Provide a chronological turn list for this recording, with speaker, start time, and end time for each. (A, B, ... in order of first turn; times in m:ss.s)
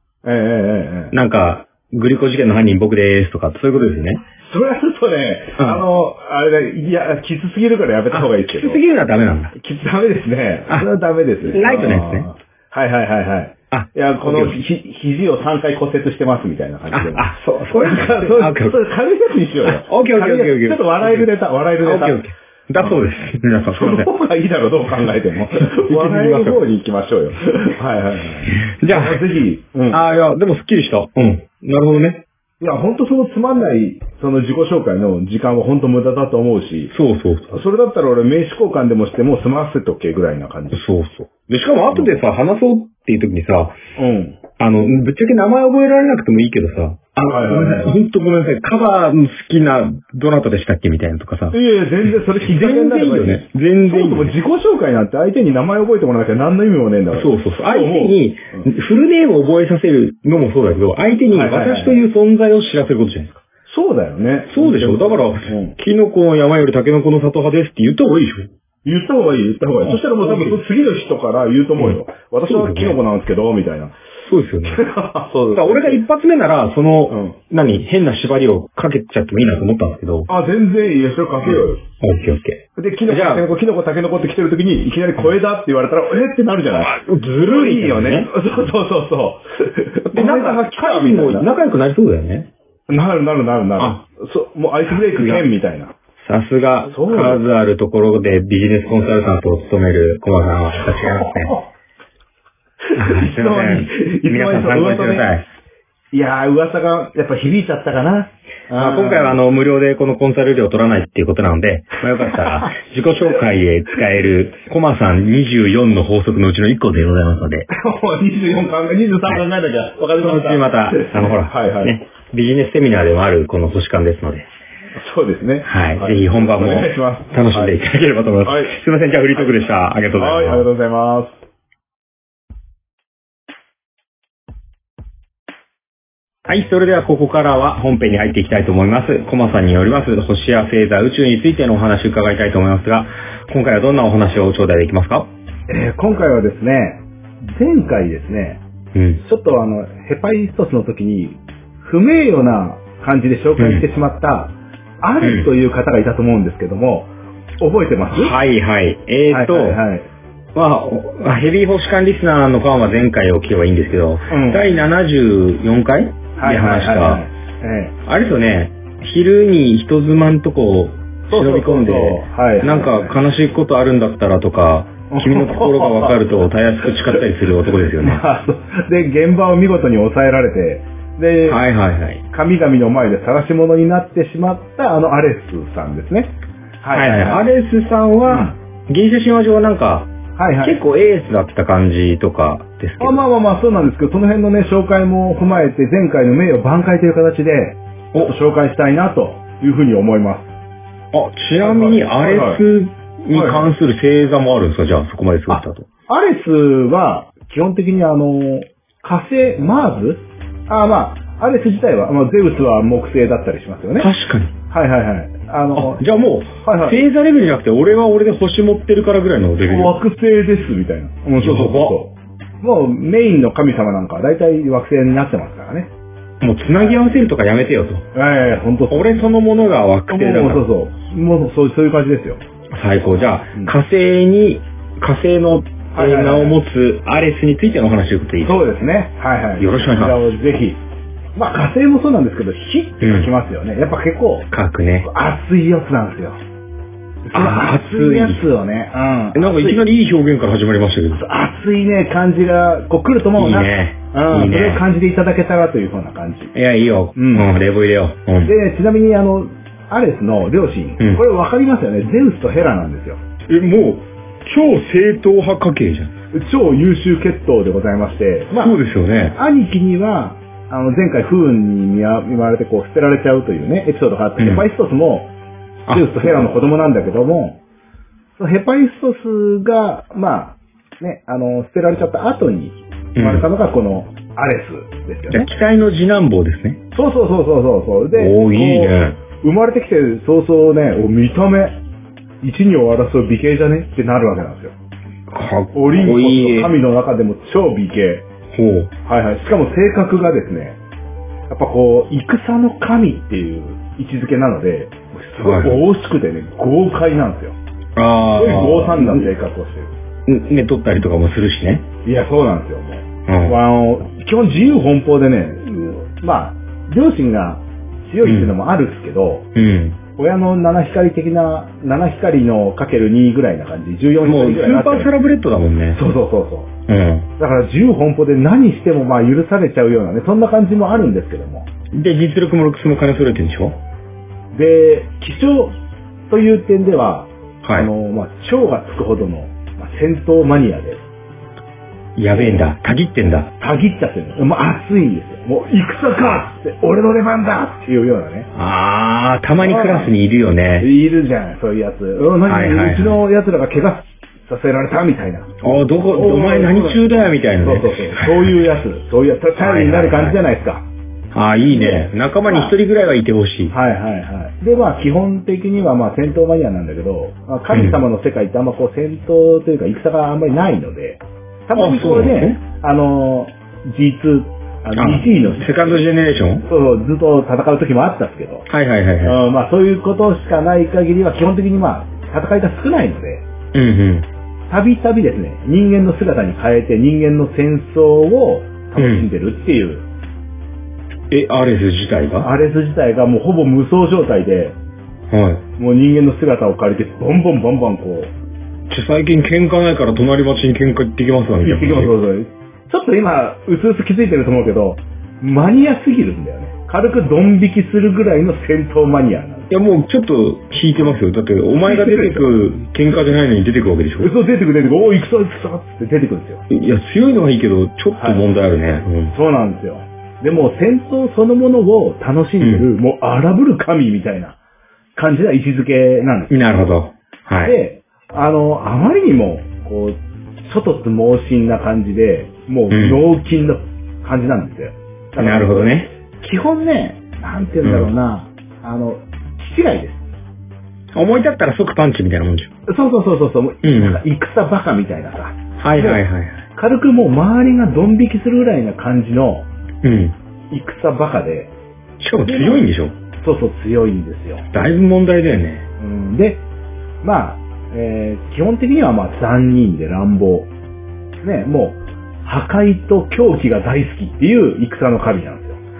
0:00.2-0:01.1 A
0:01.1-0:04.2 B
0:04.4-0:08.8 A
0:05.6-0:05.8 B
0:08.1-0:09.5 B
0:09.6-0:22.2 A
0:11.4-0:12.3 B
0:13.7-0:14.6 B
0:16.9-0:18.8 B
0:19.6-0:21.3 B
0:21.8-0:24.1 B
0:23.7-0:30.0 A
0:25.6-0:26.6 B
0:28.5-0:29.2 B
0:29.9-0:32.2 B
0:32.6-0:36.9 A
0:36.9-0:37.6 B
0:37.5-0:40.8 A
0:40.7-0:43.8 B
0:44.0-0:44.4 A
0:44.6-0:54.3 B
0:47.2-0:47.9 A
0:51.5-0:58.7 A
0:57.1-1:03.4 B
1:01.3-1:02.0 A
1:03.7-1:05.8 A
1:04.5-1:08.5 B
1:08.8-1:13.9 A
1:09.9-1:10.6 B
1:11.8-1:13.0 B
1:14.2-1:14.8 B
1:14.6-1:16.0 A
1:15.5-1:20.3 B
1:17.1-1:17.4 A
1:20.3-1:21.8 A
1:21.4-1:23.4 B
1:22.8-1:31.5 A
1:26.8-1:28.3 B
1:30.1-1:32.5 B
1:32.9-1:35.9 A
1:35.0-1:35.4 B
1:36.2-1:41.5 B
1:36.9-1:37.4 A
1:40.9-1:41.7 A
1:42.8-1:45.3 A
1:43.0-1:45.5 B
1:46.1-1:49.4 A
1:48.8-1:57.7 B
1:52.2-1:52.7 A
1:57.7-2:02.0 A
2:00.2-2:04.5 B
2:05.0-2:07.8 A
2:05.6-2:10.6 B
2:08.4-2:08.8 A
2:10.1-2:11.4 A
2:16.4-2:25.3 B
2:25.7-2:28.6 A
2:28.9-2:29.2 B
2:29.2-2:37.1 A
2:33.6-2:33.8 B
2:35.2-2:35.5 B
2:37.6-2:38.4 A
2:38.1-2:39.8 B
2:39.3-2:40.0 A
2:40.5-2:47.2 B
2:44.3-2:44.7 A
2:46.4-2:47.9 A
2:48.0-2:58.2 B
2:51.3-2:53.2 A
2:55.1-2:57.2 A
2:57.9-3:01.6 A
3:01.5-3:02.2 B
3:02.3-3:07.4 A
3:06.9-3:13.2 B
3:08.3-3:08.5 A
3:10.4-3:10.8 A
3:13.0-3:20.5 A
3:21.1-3:25.9 B
3:21.6-3:22.6 A
3:23.3-3:23.7 A
3:25.5-3:34.1 A
3:34.0-3:34.5 B
3:34.7-3:36.0 A
3:35.7-3:40.0 B
3:36.6-3:37.0 A
3:39.6-3:45.9 A
3:41.4-3:42.0 B
3:46.4-3:48.0 B
3:48.1-3:49.3 A
3:48.9-3:50.6 B
3:50.1-3:52.4 A
3:52.7-3:58.7 B
3:55.9-3:56.6 A
3:58.4-4:00.8 A
3:59.6-4:00.2 B
4:01.4-4:04.5 A
4:03.0-4:03.3 B
4:04.5-4:05.1 B
4:05.0-4:06.4 A
4:07.3-4:09.8 A
4:07.3-4:08.4 B
4:09.3-4:11.2 B
4:11.1-4:16.5 A
4:13.4-4:14.8 B
4:16.5-4:18.5 B
4:17.2-4:17.5 A
4:18.4-4:23.2 A
4:23.5-4:26.1 B
4:26.3-4:28.8 A
4:28.5-4:29.4 B
4:29.3-4:35.3 A
4:34.4-4:34.6 B
4:35.8-4:36.4 B
4:35.9-4:37.6 A
4:38.4-4:45.5 A
4:43.2-4:43.4 B
4:45.3-4:46.8 B
4:46.9-4:51.8 A
4:48.1-4:49.2 B
4:52.4-4:54.7 A
4:55.3-4:56.8 B
4:55.7-4:58.2 A
4:58.5-4:58.9 B
4:59.0-5:00.8 A
5:01.5-5:07.5 A
5:05.4-5:05.8 B
5:08.0-5:09.3 B
5:08.3-5:09.9 A
5:10.3-5:11.8 B
5:12.0-5:19.5 A
5:13.3-5:13.6 B
5:18.2-5:18.5 B
5:19.5-5:20.0 B
5:20.2-5:25.1 A
5:24.2-5:26.0 B
5:25.9-5:26.7 A
5:26.9-5:27.3 B
5:27.4-5:31.7 A
5:31.9-5:33.8 B
5:34.5-5:35.8 A
5:36.3-5:41.0 A
5:37.6-5:37.9 B
5:42.2-5:43.5 B
5:42.3-5:42.6 A
5:43.6-5:48.5 A
5:48.5-5:50.9 B
5:49.6-5:50.1 A
5:50.8-6:00.8 A
5:52.4-5:53.2 B
5:55.6-5:58.6 B
5:59.6-6:00.4 B
6:01.3-6:03.7 B
6:01.7-6:02.7 A
6:03.7-6:16.0 A
6:07.7-6:08.0 B
6:11.7-6:12.6 B
6:14.9-6:16.6 B
6:16.7-6:18.7 A
6:18.7-6:19.4 B
6:19.2-6:23.4 A
6:23.7-6:24.3 B
6:24.7-6:30.0 A
6:29.0-6:29.2 B
6:31.3-6:32.5 B
6:32.4-6:34.8 A
6:35.3-6:35.6 B
6:35.8-6:38.3 A
6:38.9-6:42.1 B
6:41.6-6:49.7 A
6:49.7-6:54.3 B
6:51.8-6:52.5 A
6:54.2-6:56.6 A
6:56.7-6:59.3 B
6:58.2-6:58.4 A
6:59.3-7:04.6 A
7:02.6-7:02.9 B
7:05.2-7:06.5 A
7:06.5-7:07.8 B
7:07.6-7:20.2 A
7:12.9-7:13.2 B
7:15.4-7:16.1 B
7:17.8-7:18.1 B
7:21.1-7:22.7 B
7:22.9-7:29.6 A
7:23.8-7:24.2 B
7:25.8-7:26.6 B
7:30.0-7:30.3 B
7:30.7-7:31.7 A
7:32.2-7:33.1 B
7:32.4-7:32.9 A
7:33.4-7:34.7 A
7:34.7-7:35.8 B
7:36.0-7:36.6 A
7:37.2-7:40.7 A
7:41.4-7:45.8 A